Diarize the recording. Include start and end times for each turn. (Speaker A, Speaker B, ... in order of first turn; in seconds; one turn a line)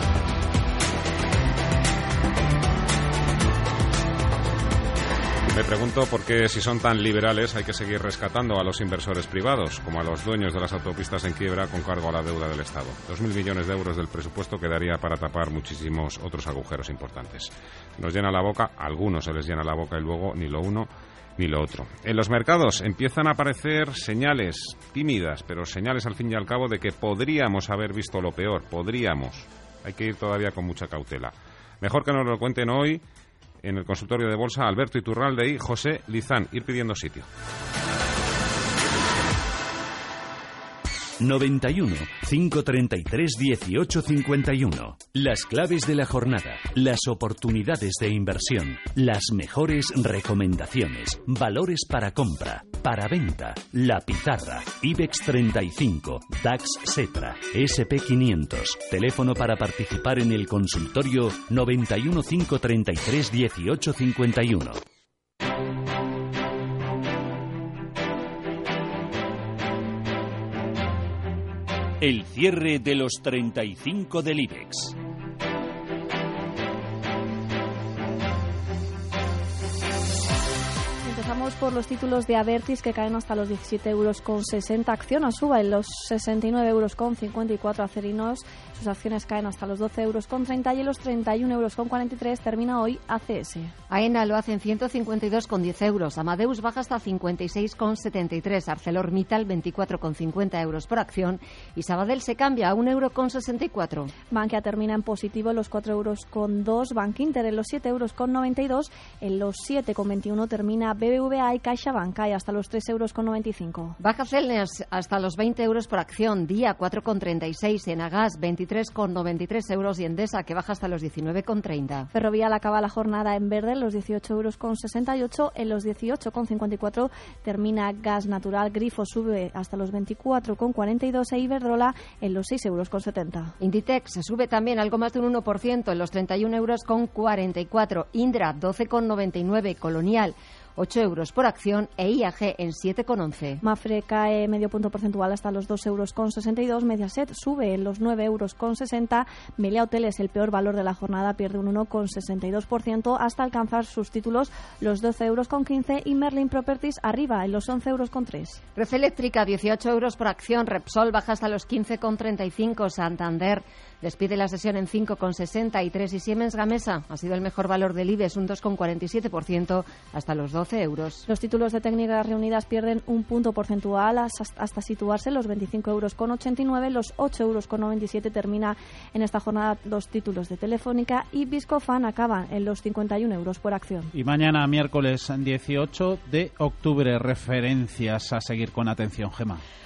Speaker A: 5.5-33.0
Speaker A: 33.6-37.3
Speaker B: 41.2-64.8
Speaker B: 72.0-75.0
Speaker C: 81.0-93.8
Speaker D: 93.9-104.1
Speaker C: 104.3-114.0
Speaker D: 114.0-122.1
Speaker C: 122.1-133.6
Speaker D: 133.6-143.6
Speaker C: 143.6-158.6
Speaker D: 158.8-171.3
Speaker C: 171.3-184.1
Speaker E: 184.1-189.6